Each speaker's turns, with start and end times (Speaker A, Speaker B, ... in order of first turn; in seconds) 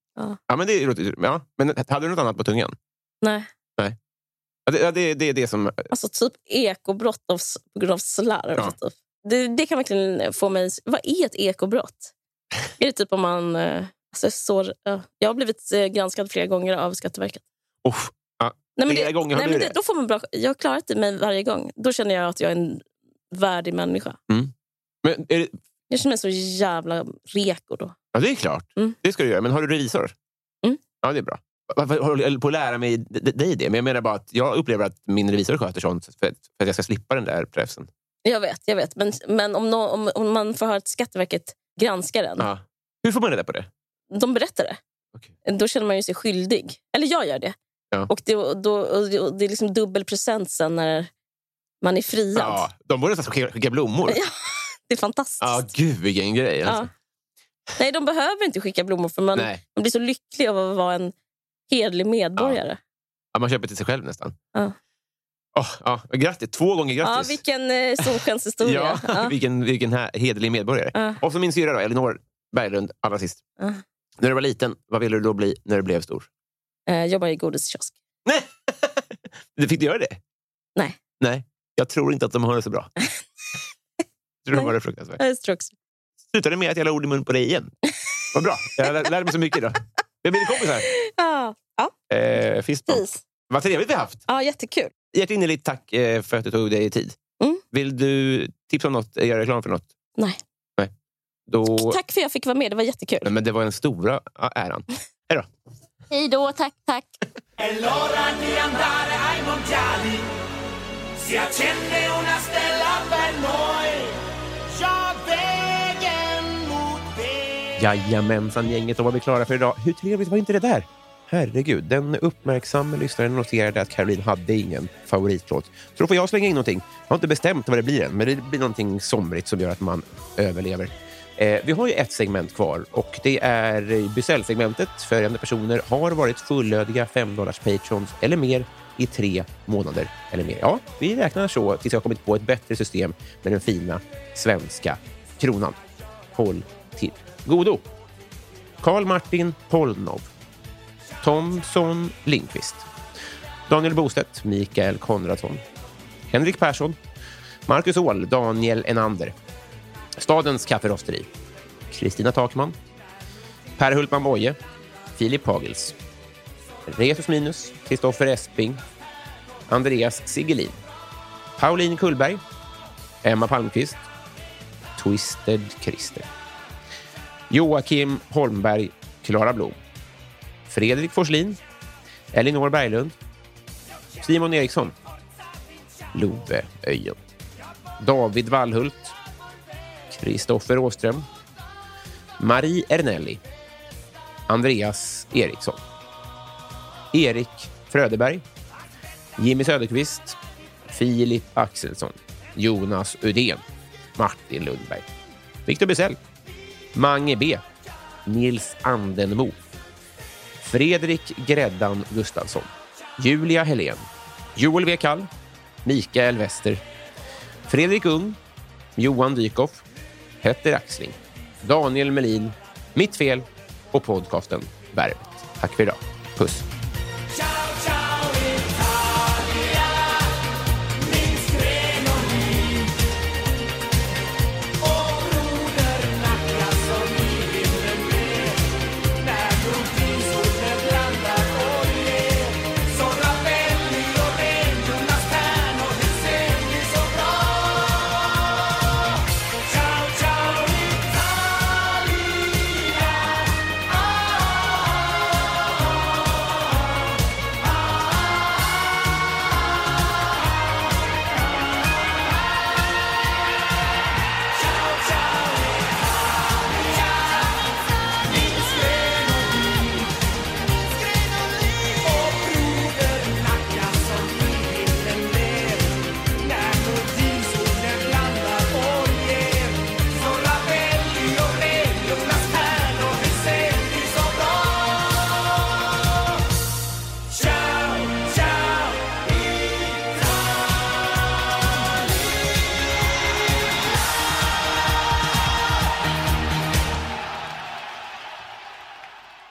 Speaker A: 0.5-2.8, 4.7-5.9, 17.8-19.7, 25.0-25.6, 28.1-30.1, 31.0-37.9, 42.4-43.7, 52.4-54.2, 55.4-56.9, 59.4-59.6, 63.3-64.4, 65.5-67.4, 68.0-73.4, 74.2-76.3, 78.3-80.2, 81.2-82.9, 84.5-85.2, 86.3-87.7, 88.3-90.9, 92.1-94.2, 95.1-97.2, 97.7-99.9, 101.5-102.0, 103.2-105.5, 117.8-145.8, 146.3-147.8, 148.8-150.3, 151.2-152.9, 153.7-155.6, 156.3-157.0, 157.7-159.3, 160.2-161.3, 161.9-162.8, 163.8-164.6, 165.2-165.9, 166.9-168.8, 169.7-170.8, 171.6-172.4, 173.2-174.0, 175.0-176.3, 177.5-179.8, 180.7-181.6, 182.3-183.2, 184.2-184.9, 186.1-187.2, 188.0-189.2, 190.1-191.3, 192.4-193.4, 194.5-195.8, 197.1-198.4, 199.4-200.4, 200.9-203.6, 204.2-205.1, 205.7-206.2, 206.9-207.6, 208.3-209.6, 210.6-215.3, 215.8-216.8, 217.7-218.4, 219.0-219.8, 220.4-226.7
Speaker B: 3.2-3.5, 5.9-12.1, 12.8-17.4, 18.8-24.2, 25.9-27.9, 38.2-42.5, 44.1-44.8, 45.5-47.6, 48.1-51.1, 51.8-52.6, 54.1-55.7, 56.6-56.9, 57.8-61.1, 61.7-62.8, 67.0-69.3, 71.0-71.2, 76.9-78.0, 84.5-85.7, 90.5-91.9, 92.9-93.2, 94.3-94.9, 101.7-103.3, 106.1-107.2
Speaker C: 107.6-110.3, 111.2-114.2, 114.8-117.1, 227.8-230.2, 231.1-232.8, 234.8-238.7, 239.2-248.2, 249.7-253.2, 268.3-270.1, 271.9-285.3, 287.4-289.2